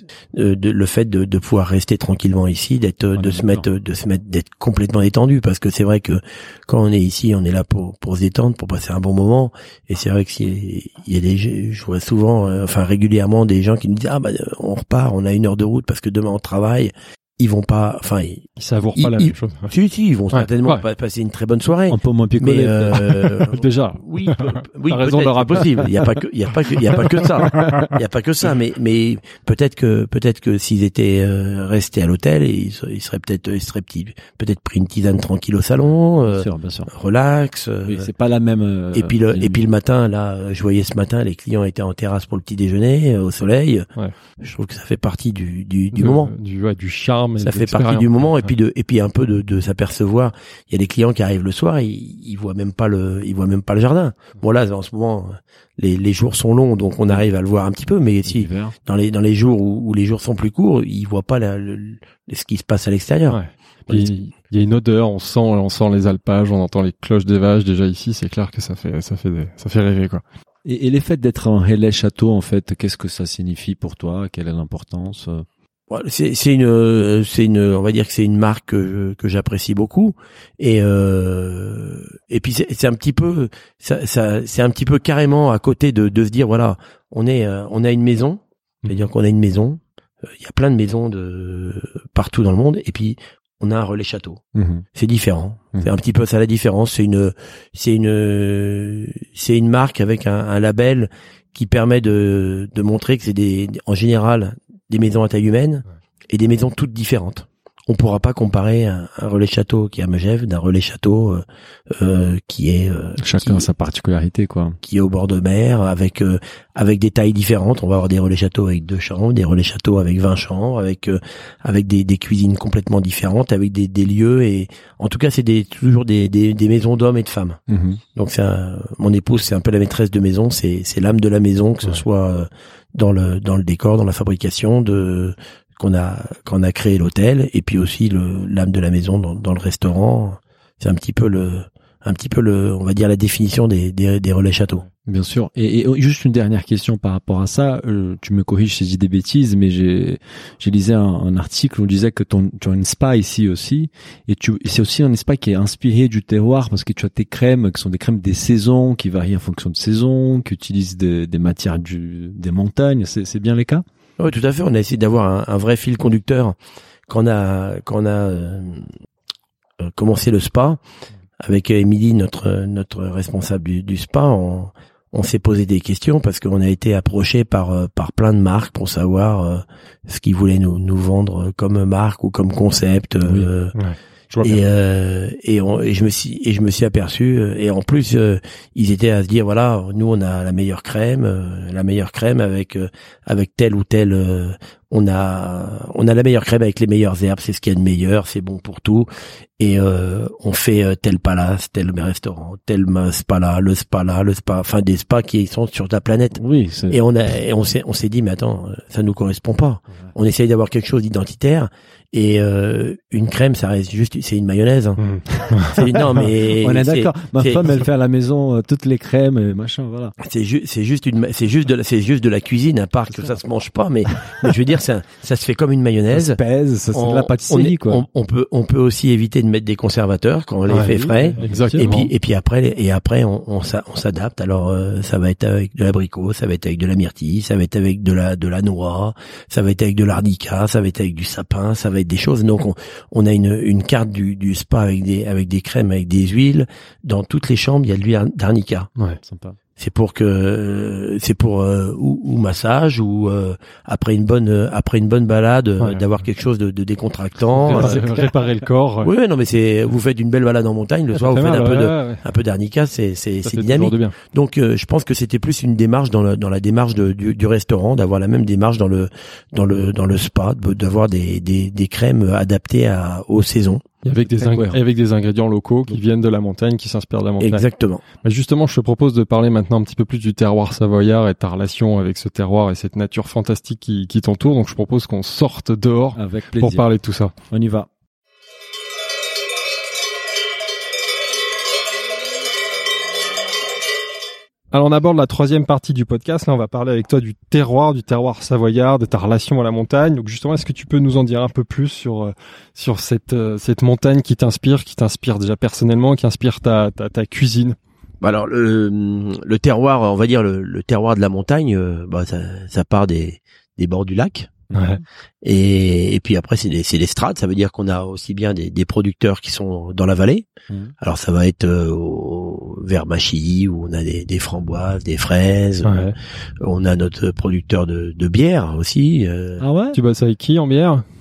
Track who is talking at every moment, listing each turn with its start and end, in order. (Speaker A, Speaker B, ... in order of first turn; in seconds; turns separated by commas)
Speaker A: 0.3-38.1, Speaker B: 3.2-3.6, Speaker C: 18.6-19.7, Speaker C: 20.3-20.8, Speaker B: 21.9-23.2, Speaker C: 23.5-26.1, Speaker B: 36.3-36.9, Speaker B: 37.9-39.7, Speaker A: 38.9-43.9, Speaker A: 44.4-46.3, Speaker C: 46.0-48.5, Speaker A: 47.4-63.4, Speaker B: 58.2-58.7, Speaker C: 63.3-70.2, Speaker B: 70.7-75.5, Speaker A: 75.9-89.8, Speaker A: 90.3-94.4, Speaker B: 94.5-94.8, Speaker A: 95.0-113.7, Speaker B: 113.2-114.8, Speaker A: 114.8-127.6, Speaker B: 127.7-128.0, Speaker A: 128.2-144.9, Speaker B: 145.1-163.8, Speaker A: 164.2-166.6, Speaker A: 167.1-168.9, Speaker A: 169.8-170.8, Speaker A: 171.4-183.8, Speaker C: 183.8-184.6, Speaker A: 184.4-199.1, Speaker A: 199.6-215.0, Speaker B: 206.4-207.0, Speaker C: 215.0-215.8, Speaker B: 215.4-220.1, Speaker A: 215.6-217.8, Speaker A: 220.2-226.4, Speaker B: 223.1-223.4, Speaker B: 224.2-224.5, Speaker B: 226.1-228.1, Speaker A: 226.9-248.9, Speaker B: 230.7-231.9, Speaker C: 230.7-232.1, Speaker B: 249.2-249.6, Speaker A: 249.8-258.0, Speaker B: 257.6-258.3, Speaker C: 257.7-259.1, Speaker A: 259.0-273.8, Speaker C: 261.1-262.2, Speaker C: 263.4-264.1, Speaker C: 274.1-277.7, Speaker B: 274.3-274.8, Speaker A: 277.4-278.0, Speaker C: 278.2-287.3, Speaker B: 286.1-286.9, Speaker B: 287.5-287.9, Speaker C: 294.7-307.8, Speaker A: 308.2-314.5, Speaker B: 314.7-315.0, Speaker C: 314.7-315.0, Speaker A: 315.4-320.5, Speaker A: 321.0-326.1, Speaker C: 325.9-326.1, Speaker A: 326.6-329.6, Speaker B: 329.6-330.0, Speaker C: 329.9-331.0